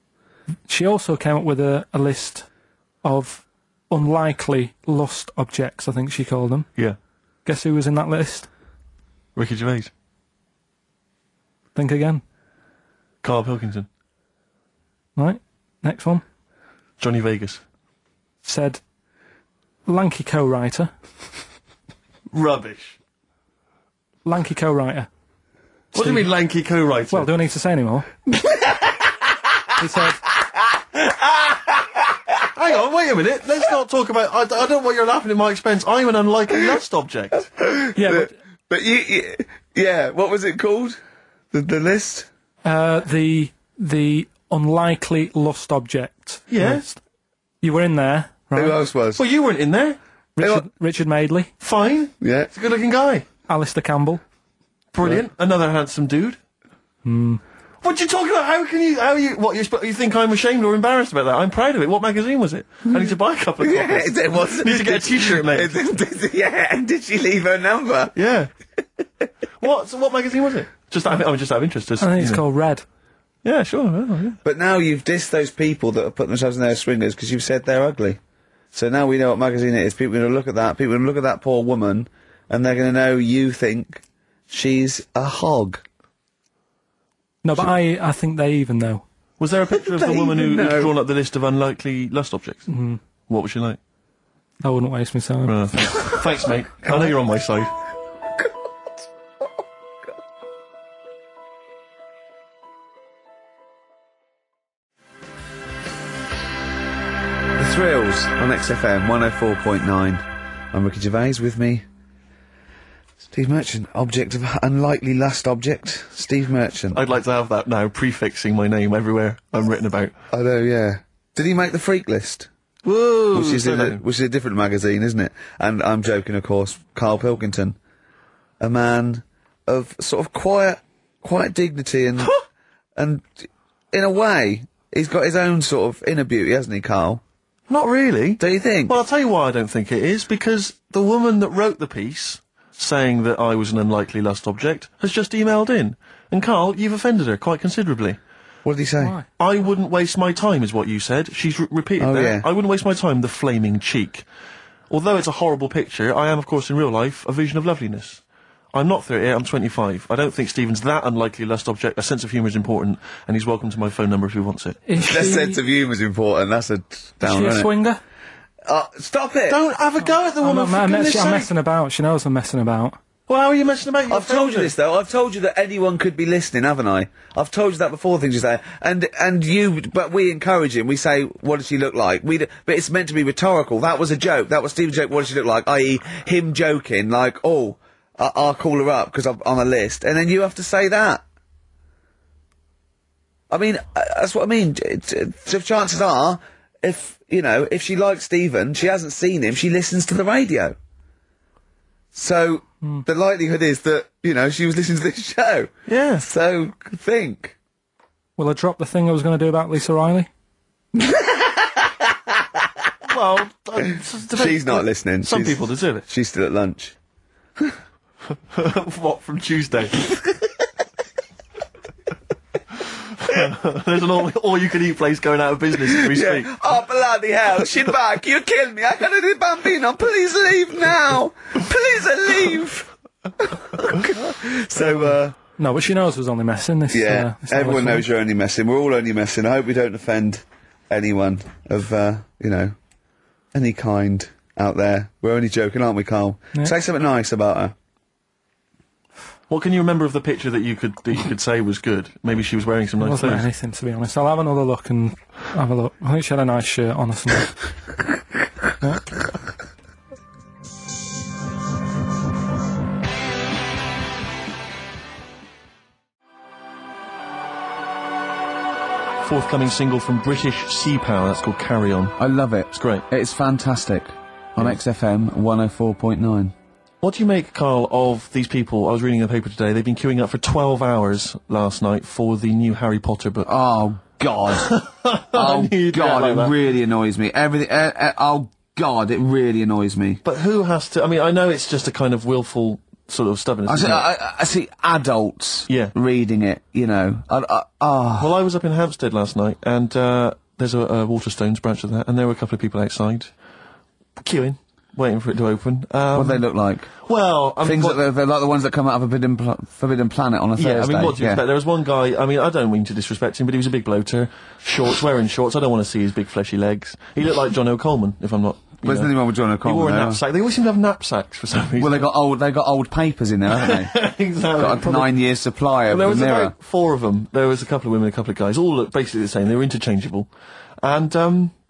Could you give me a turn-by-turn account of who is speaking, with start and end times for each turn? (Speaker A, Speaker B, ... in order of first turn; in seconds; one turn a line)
Speaker A: 0.7-2.5
Speaker A: 3.0-6.7
Speaker A: 7.4-8.5
Speaker B: 9.3-9.9
Speaker A: 11.7-12.2
Speaker B: 13.2-13.9
Speaker A: 15.2-16.2
Speaker B: 17.0-17.6
Speaker A: 18.4-18.8
Speaker A: 19.9-20.9
Speaker B: 22.3-23.0
Speaker A: 24.2-25.1
Speaker B: 25.9-27.3
Speaker A: 25.9-26.3
Speaker A: 27.1-28.1
Speaker C: 28.3-29.3
Speaker A: 29.8-30.2
Speaker C: 30.4-32.4
Speaker B: 32.5-37.5
Speaker C: 37.6-41.0
Speaker A: 38.0-38.3
Speaker C: 41.5-42.3
Speaker A: 42.6-47.0
Speaker B: 46.5-46.9
Speaker A: 47.6-48.8
Speaker C: 48.5-49.2
Speaker B: 49.2-50.0
Speaker A: 50.4-51.5
Speaker C: 50.4-50.6
Speaker B: 51.6-53.2
Speaker C: 52.2-52.5
Speaker A: 53.5-54.2
Speaker B: 54.9-56.4
Speaker A: 57.0-57.4
Speaker B: 57.8-65.7
Speaker C: 63.6-68.1
Speaker B: 68.1-68.5
Speaker B: 69.6-72.4
Speaker A: 72.0-72.8
Speaker B: 73.4-74.4
Speaker C: 74.4-78.2
Speaker C: 78.7-85.8
Speaker A: 87.4-89.0
Speaker B: 89.4-92.7
Speaker C: 89.7-90.9
Speaker A: 92.7-93.0
Speaker B: 93.3-93.8
Speaker A: 94.6-96.2
Speaker B: 95.5-97.7
Speaker C: 107.5-111.8
Speaker C: 113.3-117.0
Speaker B: 116.9-120.1
Speaker C: 120.3-122.5
Speaker B: 122.8-124.0
Speaker C: 123.3-127.8
Speaker C: 128.6-132.3
Speaker C: 132.9-137.2
Speaker B: 137.7-148.2
Speaker C: 138.4-139.0
Speaker C: 148.6-149.2
Speaker A: 149.0-149.2
Speaker B: 149.4-154.2
Speaker C: 152.0-152.4
Speaker B: 154.9-158.2
Speaker B: 158.7-164.8
Speaker A: 164.9-165.6
Speaker C: 165.0-167.7
Speaker A: 167.2-168.0
Speaker C: 168.6-169.6
Speaker B: 169.5-171.5
Speaker A: 170.4-173.0
Speaker B: 173.3-174.7
Speaker C: 174.1-191.2
Speaker C: 193.5-200.8
Speaker C: 202.1-207.6
Speaker B: 205.9-206.3
Speaker A: 208.4-210.3
Speaker C: 210.9-212.7
Speaker B: 213.0-216.1
Speaker C: 213.9-216.9
Speaker B: 218.5-220.1
Speaker B: 223.2-226.6
Speaker C: 225.9-232.9
Speaker C: 233.4-235.3
Speaker A: 235.6-238.0
Speaker C: 236.9-242.7
Speaker C: 243.5-247.7
Speaker B: 249.5-253.4
Speaker A: 253.0-257.5
Speaker B: 269.2-272.1
Speaker C: 272.2-276.5
Speaker B: 272.7-273.0
Speaker B: 277.0-283.5
Speaker C: 283.4-284.8
Speaker B: 284.5-286.5
Speaker C: 285.3-290.2
Speaker B: 290.2-294.1
Speaker C: 293.6-298.4
Speaker B: 295.7-295.9
Speaker B: 298.2-303.3
Speaker B: 304.2-306.4
Speaker C: 306.1-306.9
Speaker B: 307.0-308.0
Speaker C: 307.6-311.4
Speaker B: 310.6-322.0
Speaker C: 318.8-320.2
Speaker C: 321.8-323.9
Speaker B: 323.5-325.1
Speaker C: 324.6-326.5
Speaker B: 325.9-330.3
Speaker B: 330.8-331.5